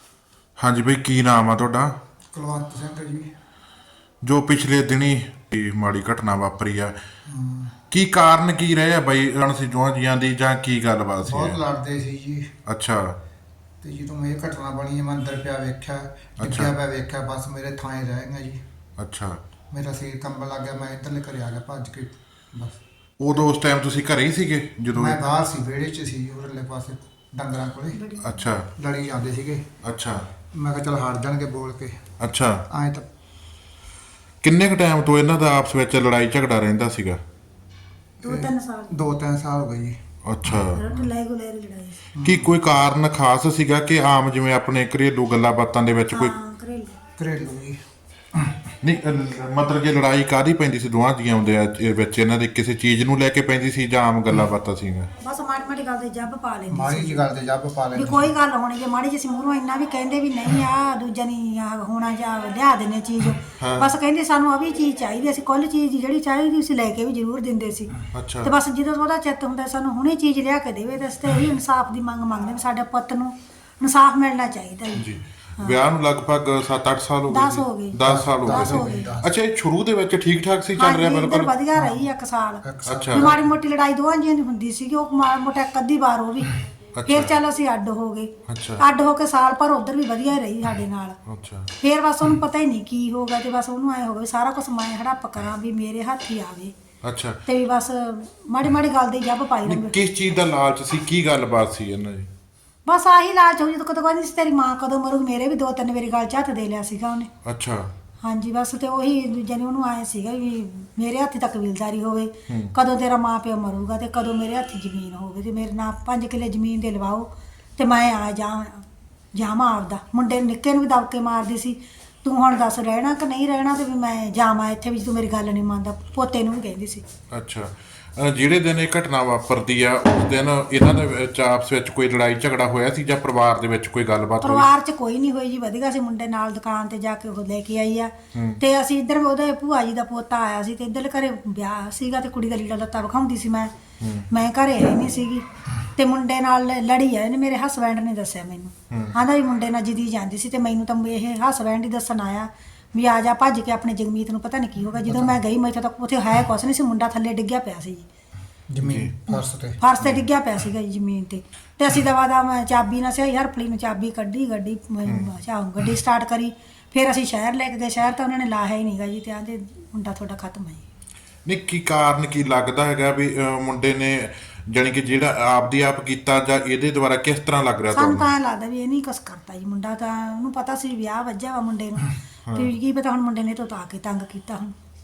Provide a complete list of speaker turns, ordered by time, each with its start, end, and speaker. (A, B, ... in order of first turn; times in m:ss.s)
0:00.6-0:02.0 A
0:02.3-0:03.3 B
0:04.2-0:07.0 A
0:07.3-0:07.7 B
0:07.9-0:11.6 A
0:11.3-0:12.5 B
0:12.7-0:13.2 A
0:13.8-0:18.6 B
0:16.4-0:16.7 A
0:19.0-0:19.4 A
0:19.7-0:22.8 B
0:23.2-0:25.2 A
0:25.0-0:28.0 B
0:27.9-0:28.5 C
0:28.2-0:28.7 A
0:28.8-0:29.7 B
0:29.8-0:30.2 A
0:30.5-0:32.0 B
0:32.2-0:32.6 A
0:32.7-0:33.1 B
0:34.4-0:37.2 A
0:38.2-0:39.2 C
0:38.2-0:40.0 B
0:40.2-0:40.8 A
0:40.7-0:42.1 C
0:42.2-0:46.4 A
0:46.1-0:47.0 C
0:47.2-0:47.8 B
0:48.8-0:55.1 A
0:55.2-0:57.3 C
0:56.7-0:58.3 B
0:57.9-1:15.8 C
1:03.6-1:03.9 A
1:08.1-1:08.5 A
1:15.0-1:21.5 A
1:17.3-1:19.2 C
1:18.0-1:19.3 B
1:20.8-1:31.2 C
1:22.6-1:23.3 B
1:22.9-1:23.3 A
1:27.0-1:27.3 A
1:28.5-1:28.8 A
1:31.3-1:31.7 A
1:31.8-1:36.7 C
1:37.0-1:37.4 A
1:37.5-1:40.0 C
1:39.7-1:42.3 A
1:42.9-1:47.3 C
1:47.4-1:47.9 A
1:48.2-2:07.0 C
1:52.5-1:52.7 A
2:07.3-2:14.7 A
2:14.4-2:23.7 C
2:18.3-2:18.6 A
2:24.0-2:24.3 A
2:24.3-2:25.4 C
2:26.0-2:38.1 C
2:28.9-2:29.2 A
2:38.7-2:39.8 B
2:38.8-2:39.2 A
2:39.3-2:50.8 C
2:51.4-2:58.3 A
2:57.9-3:04.7 C